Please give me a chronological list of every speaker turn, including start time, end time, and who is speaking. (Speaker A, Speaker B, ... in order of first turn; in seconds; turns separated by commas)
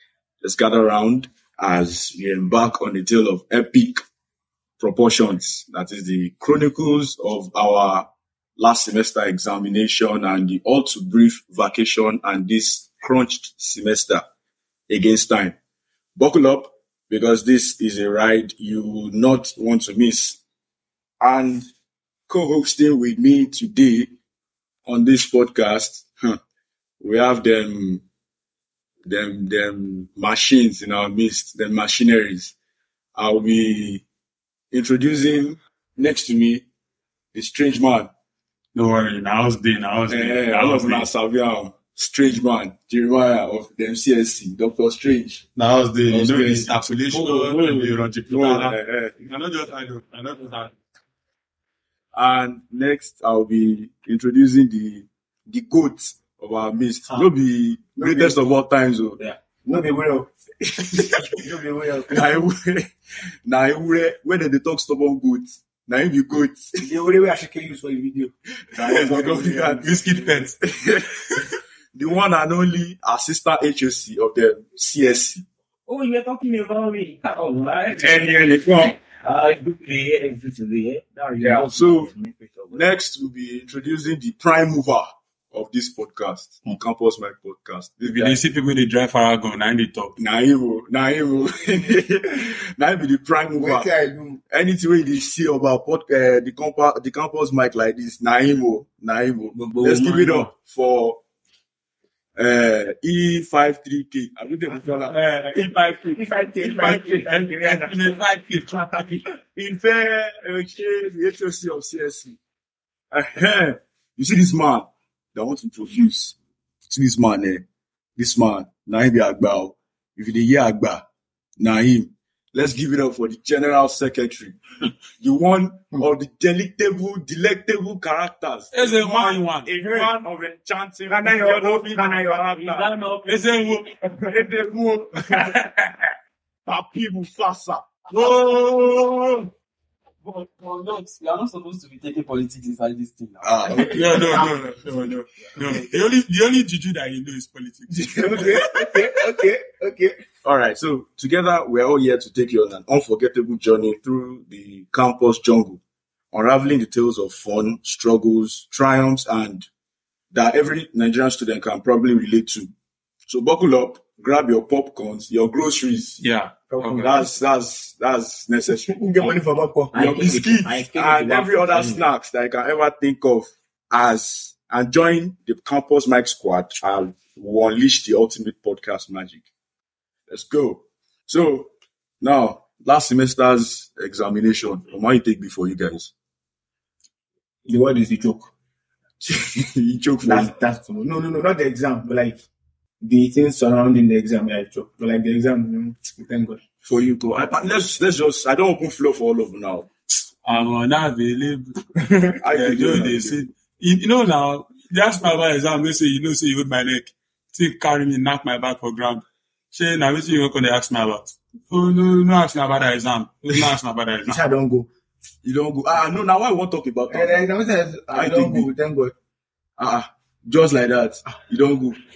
Speaker A: 0.4-4.0, Speaker A: 4.8-14.2, Speaker A: 14.9-15.5, Speaker A: 16.1-20.4, Speaker A: 21.2-21.7, Speaker A: 22.3-24.1, Speaker A: 24.9-26.4, Speaker A: 27.0-28.0, Speaker A: 29.1-32.5, Speaker A: 33.1-34.0, Speaker A: 34.7-36.6, Speaker A: 37.3-38.1, Speaker B: 38.7-41.1, Speaker A: 40.1-45.4, Speaker B: 45.5-50.7, Speaker A: 46.1-49.1, Speaker A: 52.1-59.2, Speaker C: 58.0-58.4, Speaker C: 59.6-62.2, Speaker A: 62.1-62.9, Speaker A: 63.4-66.9, Speaker C: 66.8-69.9, Speaker A: 68.7-75.4, Speaker B: 69.8-70.5, Speaker D: 75.9-82.9, Speaker A: 78.0-78.9, Speaker A: 81.4-82.1, Speaker A: 82.7-88.4, Speaker B: 88.0-90.2, Speaker A: 90.2-93.9, Speaker C: 93.6-94.4, Speaker A: 94.5-101.2, Speaker D: 99.5-100.5, Speaker A: 102.3-105.1, Speaker B: 105.1-109.2, Speaker C: 106.2-108.0, Speaker A: 109.5-112.4, Speaker A: 113.1-116.3, Speaker A: 116.9-117.6, Speaker A: 118.2-121.0, Speaker A: 121.6-124.6, Speaker A: 125.2-132.8, Speaker B: 128.7-129.7, Speaker C: 129.8-130.2, Speaker C: 131.1-132.9, Speaker D: 132.7-133.7, Speaker B: 133.2-136.1, Speaker A: 136.7-137.8, Speaker B: 138.1-139.5, Speaker E: 140.2-144.2, Speaker A: 143.4-144.2, Speaker B: 143.9-149.0, Speaker C: 147.9-150.2, Speaker A: 150.4-155.8, Speaker A: 156.3-159.7, Speaker A: 160.3-162.7, Speaker A: 163.3-166.2, Speaker B: 166.2-166.9, Speaker C: 166.8-167.1, Speaker A: 166.8-169.3, Speaker C: 168.8-170.2, Speaker D: 169.9-172.1, Speaker A: 169.9-179.4, Speaker A: 180.3-186.1, Speaker C: 187.6-188.5, Speaker A: 189.2-190.5, Speaker C: 190.2-192.4, Speaker C: 193.0-196.6, Speaker A: 196.8-199.9, Speaker B: 200.4-214.4, Speaker A: 202.4-203.4, Speaker C: 214.2-214.9, Speaker A: 215.4-217.4, Speaker C: 217.1-219.1, Speaker A: 218.1-218.7, Speaker A: 219.8-222.0